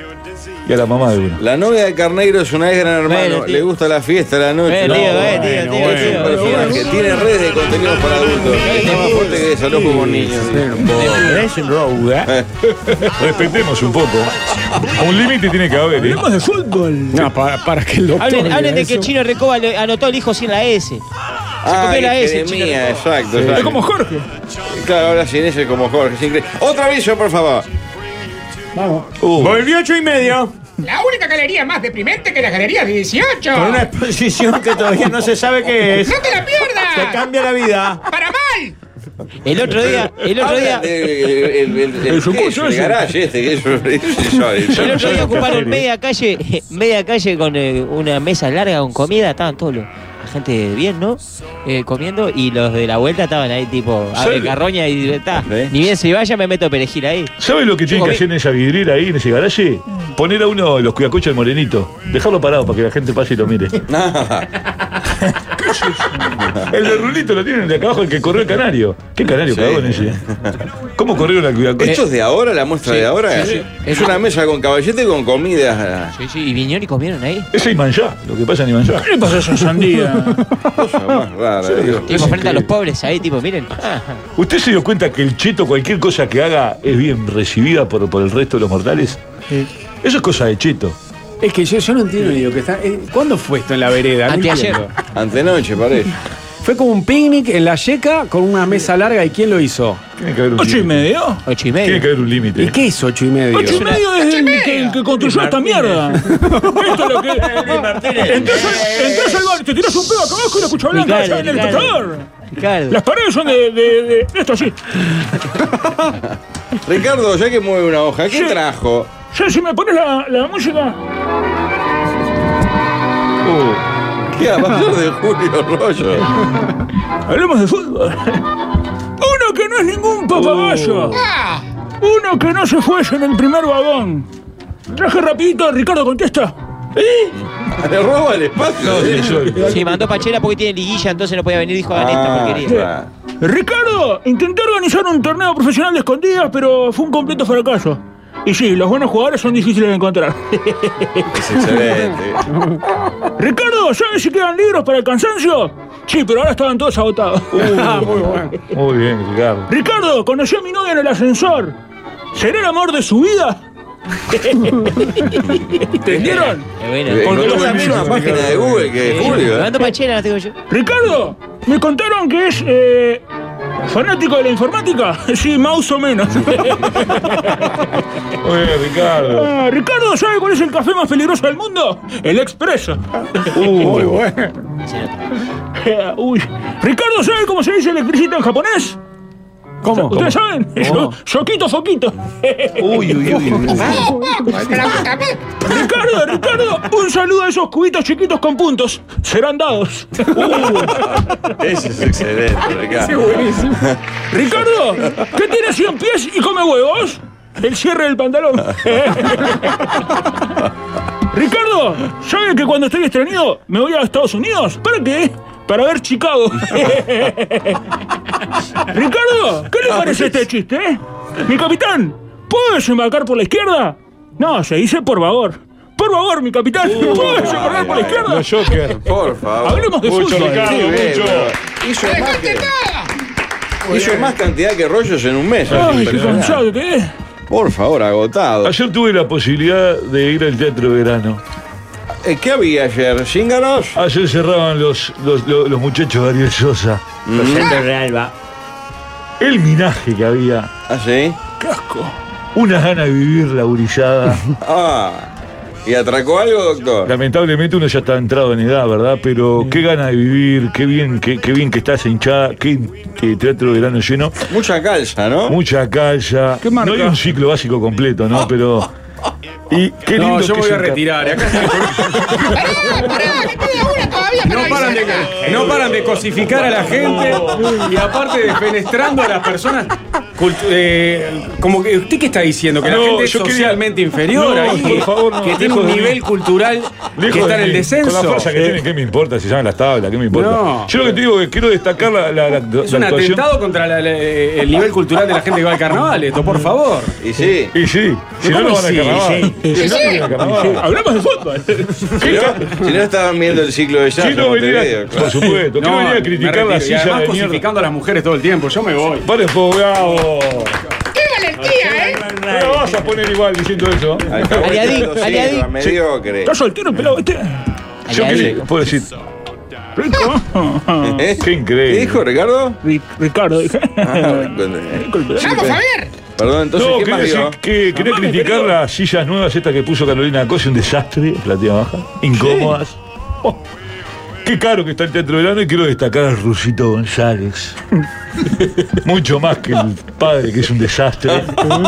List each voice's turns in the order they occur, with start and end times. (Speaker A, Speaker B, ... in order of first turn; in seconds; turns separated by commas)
Speaker A: 0.7-1.4, Speaker B: 1.4-11.4, Speaker C: 3.1-3.6, Speaker C: 4.6-6.9, Speaker D: 4.9-6.2, Speaker E: 6.2-7.1, Speaker C: 8.5-9.5, Speaker F: 9.7-11.4, Speaker D: 10.8-12.3, Speaker A: 12.9-14.3, Speaker A: 14.9-16.2, Speaker E: 16.0-17.3, Speaker F: 17.1-19.1, Speaker C: 18.2-21.0, Speaker B: 21.6-23.8, Speaker C: 21.7-22.9, Speaker A: 23.3-23.8, Speaker E: 23.5-24.3, Speaker B: 24.7-27.7, Speaker D: 28.8-30.5, Speaker A: 29.2-29.6, Speaker G: 30.8-33.9, Speaker D: 33.5-38.0, Speaker G: 36.0-37.2, Speaker G: 38.1-38.7, Speaker C: 39.4-40.9, Speaker B: 39.7-45.6, Speaker E: 42.0-43.1, Speaker C: 44.7-57.3, Speaker A: 44.8-45.8, Speaker A: 54.1-54.5, Speaker B: 55.5-55.7, Speaker A: 57.4-63.8, Speaker C: 57.9-58.2, Speaker B: 63.9-64.5, Speaker E: 65.6-66.4, Speaker B: 66.4-66.7, Speaker A: 66.7-70.2, Speaker B: 69.4-70.6, Speaker A: 71.0-72.0, Speaker B: 71.8-76.1, Speaker C: 72.8-74.2, Speaker C: 76.2-77.5, Speaker A: 77.5-79.1, Speaker E: 78.9-80.4, Speaker B: 80.7-82.3, Speaker A: 81.6-82.7, Speaker C: 82.1-84.2, Speaker A: 84.3-89.2, Speaker A: 90.0-91.0, Speaker F: 91.4-94.9, Speaker C: 94.3-94.8, Speaker B: 95.1-96.2, Speaker F: 96.6-100.0, Speaker A: 100.2-101.1, Speaker E: 100.5-101.4, Speaker C: 101.5-102.0, Speaker A: 101.8-102.8, Speaker F: 102.5-103.8, Speaker E: 103.5-112.3, Speaker C: 103.6-104.0, Speaker G: 104.1-104.9, Speaker D: 105.2-106.0, Speaker F: 106.3-106.8, Speaker D: 106.9-109.5, Speaker C: 110.9-113.0, Speaker E: 112.9-115.0, Speaker B: 116.8-119.1, Speaker E: 118.3-118.6, Speaker E: 119.3-121.0, Speaker A: 123.4-123.8, Speaker B: 124.3-126.4, Speaker E: 127.2-128.4, Speaker E: 129.2-131.2, Speaker A: 130.3-131.3, Speaker G: 131.1-131.6, Speaker E: 132.0-134.3, Speaker E: 134.9-136.5, Speaker A: 137.0-137.3, Speaker B: 137.3-139.7, Speaker A: 138.8-140.0, Speaker C: 139.7-142.9, Speaker B: 141.9-143.1, Speaker E: 143.4-151.3, Speaker B: 151.3-152.5, Speaker E: 153.4-158.1, Speaker A: 157.5-159.7, Speaker F: 157.6-158.5, Speaker E: 159.7-161.7, Speaker E: 162.3-163.6, Speaker E: 164.3-166.7, Speaker C: 166.1-168.2, Speaker B: 167.1-169.8, Speaker E: 167.2-168.5, Speaker C: 169.0-170.5, Speaker E: 170.7-173.2, Speaker E: 173.8-177.8, Speaker A: 178.4-179.5, Speaker E: 179.1-183.0, Speaker A: 183.5-184.2, Speaker F: 183.8-184.5, Speaker C: 184.8-185.2, Speaker E: 185.8-189.0, Speaker F: 189.8-190.3, Speaker E: 189.9-193.7, Speaker A: 190.8-191.1, Speaker A: 192.8-194.1, Speaker G: 193.8-195.4, Speaker F: 194.3-194.7, Speaker E: 195.6-201.1, Speaker A: 200.3-200.9, Speaker B: 201.6-204.0, Speaker F: 203.0-203.8, Speaker E: 204.3-210.0, Speaker E: 211.3-217.8, Speaker E: 218.8-228.8, Speaker A: 226.8-229.0, Speaker B: 227.0-228.2, Speaker B: 229.0-232.7, Speaker E: 229.6-231.3, Speaker A: 230.0-231.5, Speaker G: 232.0-233.1, Speaker B: 233.8-236.6, Speaker A: 235.6-236.6, Speaker E: 235.7-237.1, Speaker B: 237.5-238.7, Speaker A: 238.6-241.4, Speaker B: 242.2-244.0, Speaker A: 243.9-247.0, Speaker B: 247.2-247.8, Speaker D: 247.3-248.3, Speaker A: 249.4-250.7, Speaker B: 250.9-251.4, Speaker E: 251.6-252.1, Speaker A: 252.5-254.4, Speaker B: 254.6-255.3, Speaker B: 255.8-257.1, Speaker A: 257.0-264.5, Speaker B: 264.5-265.6, Speaker A: 265.5-268.9, Speaker E: 266.6-267.2, Speaker A: 269.7-271.7, Speaker F: 270.1-272.9, Speaker G: 272.5-275.5, Speaker F: 274.4-288.8, Speaker D: 274.6-276.1, Speaker D: 276.9-277.7, Speaker A: 282.8-286.2, Speaker A: 287.1-293.5, Speaker F: 290.3-291.2, Speaker F: 292.8-297.1, Speaker B: 297.2-297.7, Speaker A: 297.7-300.9, Speaker F: 298.4-299.6, Speaker D: 299.1-299.5, Speaker G: 299.7-300.3, Speaker E: 300.4-302.3, Speaker A: 302.2-302.8, Speaker B: 302.2-305.4, Speaker A: 304.1-307.6, Speaker F: 305.7-309.3, Speaker A: 309.2-310.7, Speaker G: 311.1-312.2, Speaker D: 311.6-313.1, Speaker A: 312.4-314.5, Speaker B: 314.3-316.5, Speaker C: 314.5-315.7, Speaker E: 316.4-317.6, Speaker C: 318.1-318.6, Speaker A: 318.1-319.1, Speaker B: 318.2-318.6, Speaker E: 319.9-321.2, Speaker B: 321.0-322.8, Speaker A: 321.4-322.2, Speaker E: 322.8-325.7, Speaker B: 324.0-325.8, Speaker G: 325.4-326.1, Speaker B: 326.4-327.6, Speaker A: 326.7-333.6, Speaker E: 327.9-328.8, Speaker E: 332.4-332.8, Speaker A: 334.4-337.8, Speaker A: 338.8-341.8